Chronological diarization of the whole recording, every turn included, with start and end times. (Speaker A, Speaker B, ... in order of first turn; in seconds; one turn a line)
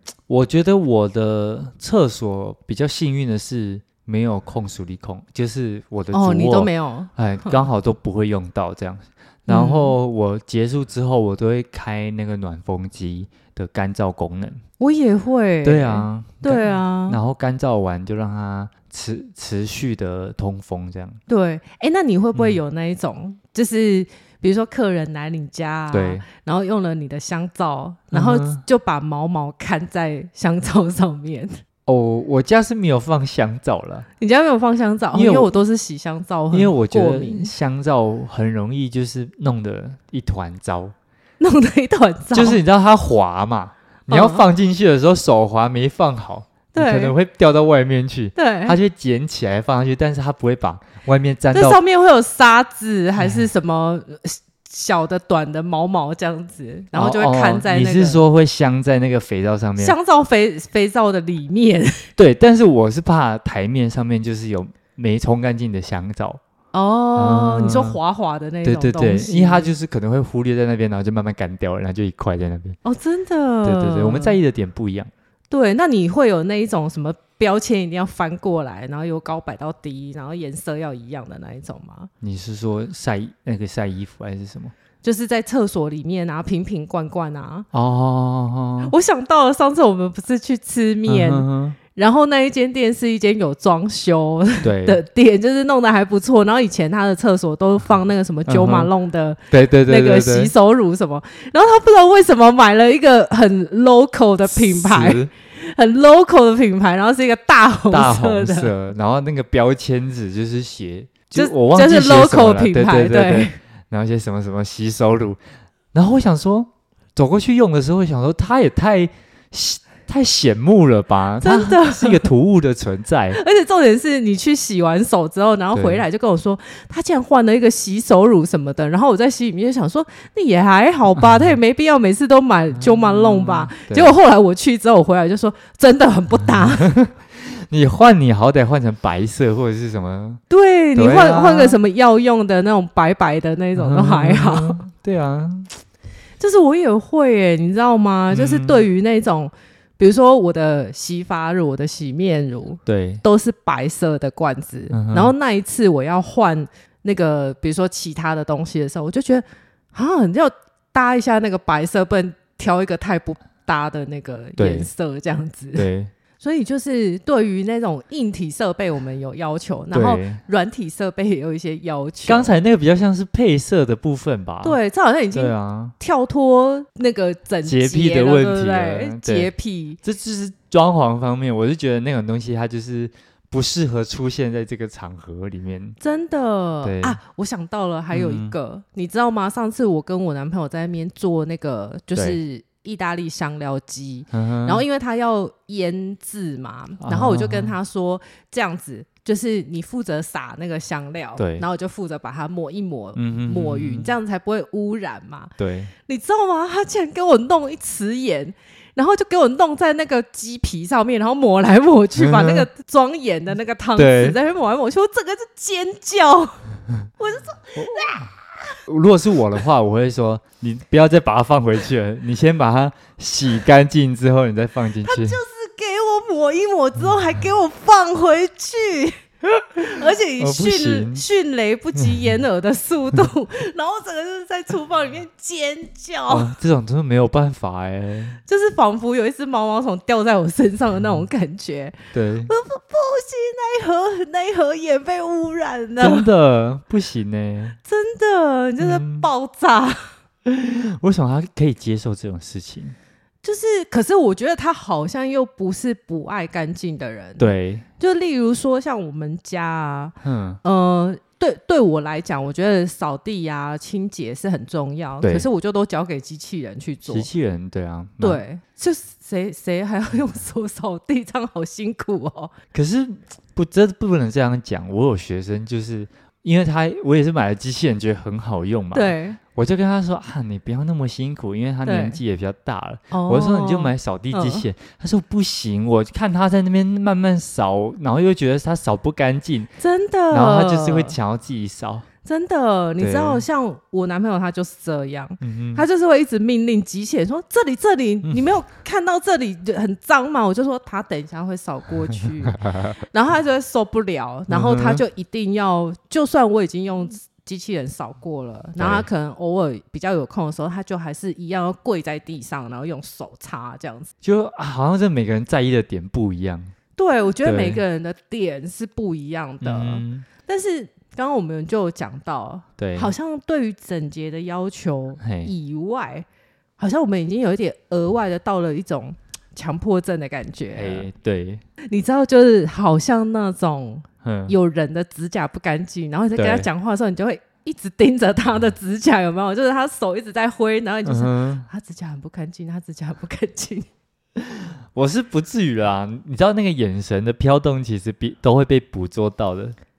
Speaker A: 0.3-14.6
Speaker B: 6.1-7.6
Speaker B: 9.5-10.0
Speaker B: 14.8-17.2
Speaker A: 15.6-21.2
Speaker B: 21.3-31.5
Speaker A: 25.9-26.2
Speaker A: 28.1-28.6
Speaker A: 31.9-34.1
Speaker B: 34.2-37.5
Speaker A: 35.1-35.5
Speaker A: 36.5-41.0
Speaker B: 41.4-42.6
Speaker A: 42.3-51.8
Speaker B: 44.1-44.4
Speaker B: 46.7-47.1
Speaker B: 48.4-48.8
Speaker B: 51.5-58.2
Speaker A: 53.2-53.5
Speaker A: 56.9-60.0
Speaker B: 59.8-62.1
Speaker A: 62.2-66.4
Speaker B: 66.7-69.7
Speaker A: 67.2-68.0
Speaker A: 68.7-72.8
Speaker B: 72.8-74.4
Speaker A: 73.6-75.1
Speaker B: 75.5-82.1
Speaker A: 82.2-84.7
Speaker B: 85.0-87.7
Speaker A: 87.7-88.9
Speaker B: 88.8-108.7
Speaker A: 91.1-91.8
Speaker A: 94.6-95.0
Speaker A: 98.5-98.9
Speaker A: 99.5-100.5
Speaker A: 104.5-105.3
Speaker A: 107.9-115.4
Speaker B: 111.3-113.6
Speaker A: 115.9-123.4
Speaker B: 121.4-122.3
Speaker B: 123.3-136.9
Speaker A: 125.7-126.0
Speaker A: 131.2-131.6
Speaker A: 132.8-134.1
Speaker A: 136.5-140.4
Speaker B: 140.5-144.8
Speaker A: 141.0-141.8
Speaker A: 143.8-145.7
Speaker B: 146.4-165.9
Speaker A: 148.3-148.8
Speaker A: 152.9-153.2
Speaker A: 154.9-155.3
Speaker A: 164.6-164.9
Speaker A: 165.8-166.1
Speaker B: 166.4-172.5
Speaker A: 169.9-170.4
Speaker A: 172.3-174.8
Speaker B: 174.6-180.0
Speaker A: 175.3-175.9
Speaker A: 177.7-179.5
Speaker A: 180.0-186.0
Speaker B: 186.0-205.5
Speaker A: 186.8-187.2
Speaker A: 188.1-188.6
Speaker A: 194.3-194.8
Speaker A: 197.0-197.8
Speaker A: 201.4-201.7
Speaker A: 203.2-204.2
Speaker A: 205.6-205.9
Speaker B: 206.1-216.6
Speaker A: 212.2-212.7
Speaker A: 214.0-214.4
Speaker B: 217.2-218.3
Speaker A: 217.8-218.3
Speaker A: 218.9-225.4
Speaker B: 225.0-229.2
Speaker B: 229.8-236.5
Speaker A: 230.4-231.2
Speaker A: 236.3-238.4
Speaker B: 238.5-246.3
Speaker A: 242.1-242.5
Speaker A: 246.0-247.8
Speaker B: 247.8-250.1
Speaker A: 248.8-249.3
Speaker A: 250.4-253.0
Speaker B: 253.4-267.3
Speaker A: 257.4-257.9
Speaker A: 260.2-260.6
Speaker A: 267.1-268.4
Speaker B: 268.2-272.5
Speaker A: 272.7-289.7
Speaker B: 278.9-279.4
Speaker B: 281.9-282.2
Speaker B: 283.1-284.7
Speaker B: 289.8-291.2
Speaker A: 290.3-292.1
Speaker B: 292.2-302.6
Speaker A: 293.0-293.4
Speaker A: 295.4-295.9
Speaker A: 302.5-303.0
Speaker B: 303.1-314.1
Speaker A: 304.5-305.0
Speaker A: 308.8-309.1
Speaker A: 314.2-316.7
Speaker B: 317.0-326.3
Speaker A: 317.4-317.8
Speaker A: 319.6-320.3
Speaker A: 322.8-323.1
Speaker A: 325.2-325.5
Speaker B: 326.8-331.1
Speaker A: 330.8-331.6
Speaker B: 331.9-343.9
Speaker A: 334.2-334.6
Speaker A: 336.4-336.7
Speaker A: 341.1-341.7
Speaker A: 344.4-349.8